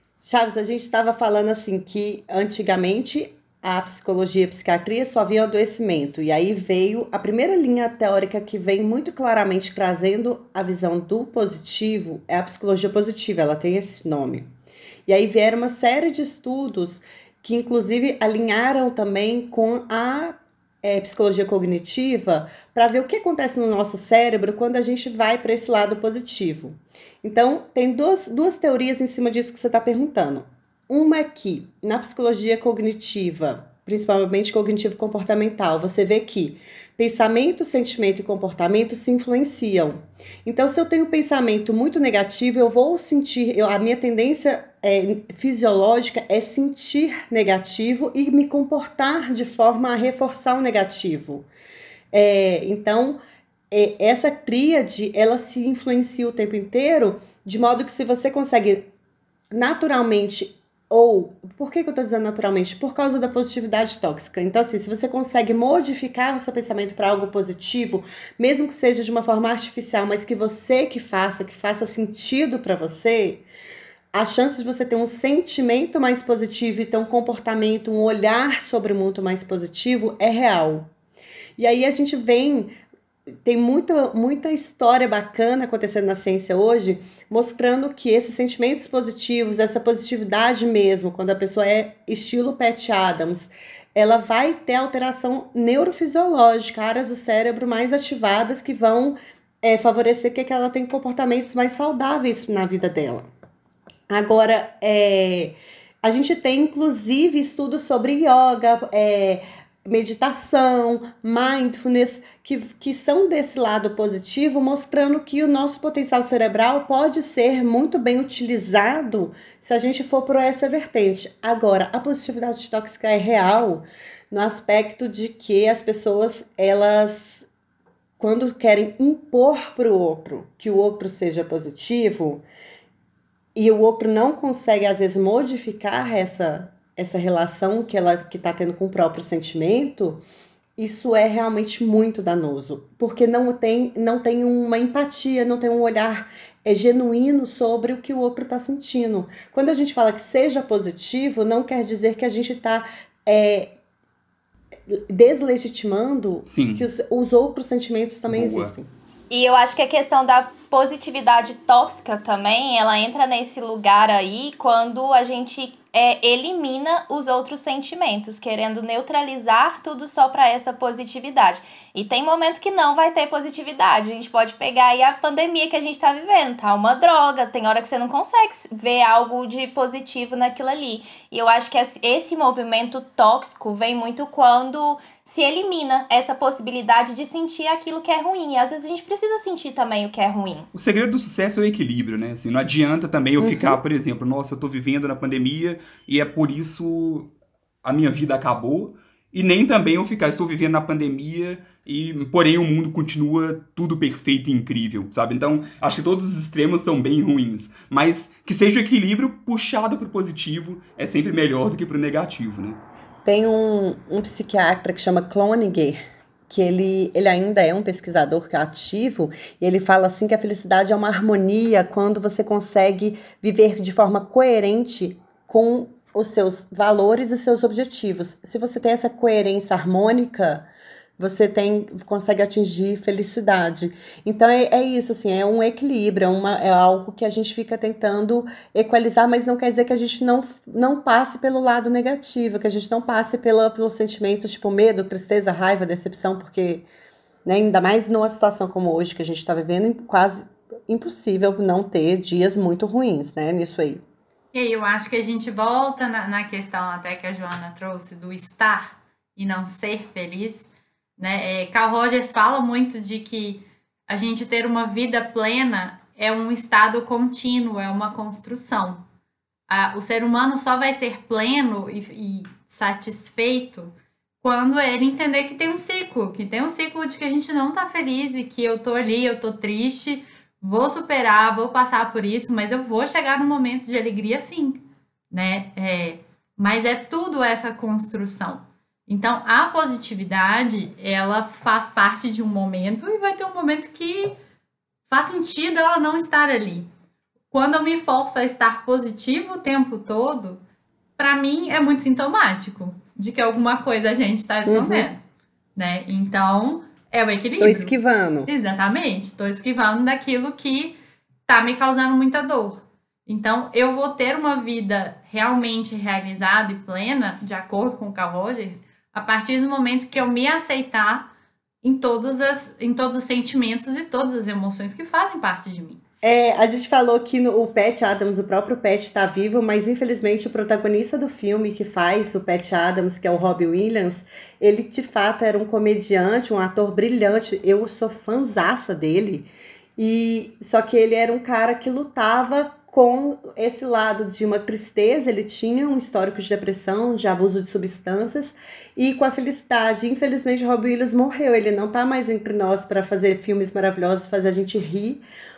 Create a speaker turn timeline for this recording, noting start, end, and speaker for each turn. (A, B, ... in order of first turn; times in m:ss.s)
0:00.2-0:14.5 A
0:15.1-0:51.5 A
0:52.1-0:53.2 A
0:53.7-0:58.9 A
0:59.5-1:13.5 A
1:14.1-1:20.9 A
1:21.6-1:22.7 A
1:23.4-1:43.3 A
1:44.1-2:07.5 A
2:08.2-2:12.4 A
2:13.6-2:20.2 A
2:20.8-2:33.8 A
2:34.9-2:38.9 A
2:36.5-2:36.9 B
2:38.3-2:38.7 B
2:39.3-3:10.7 C
3:10.7-3:17.3 B
3:13.4-3:13.8 A
3:17.8-3:32.8 B
3:33.2-3:50.7 A
3:51.2-4:06.9 A
4:07.4-4:14.0 A
4:14.5-4:29.0 D
4:29.7-4:54.4 D
4:55.1-4:56.9 D
4:57.5-5:00.6 D
5:01.2-5:05.2 D
5:04.7-5:05.1 A
5:05.8-5:07.9 D
5:07.6-5:08.5 A
5:08.5-5:21.3 D
5:21.8-5:26.0 D
5:26.2-5:55.2 A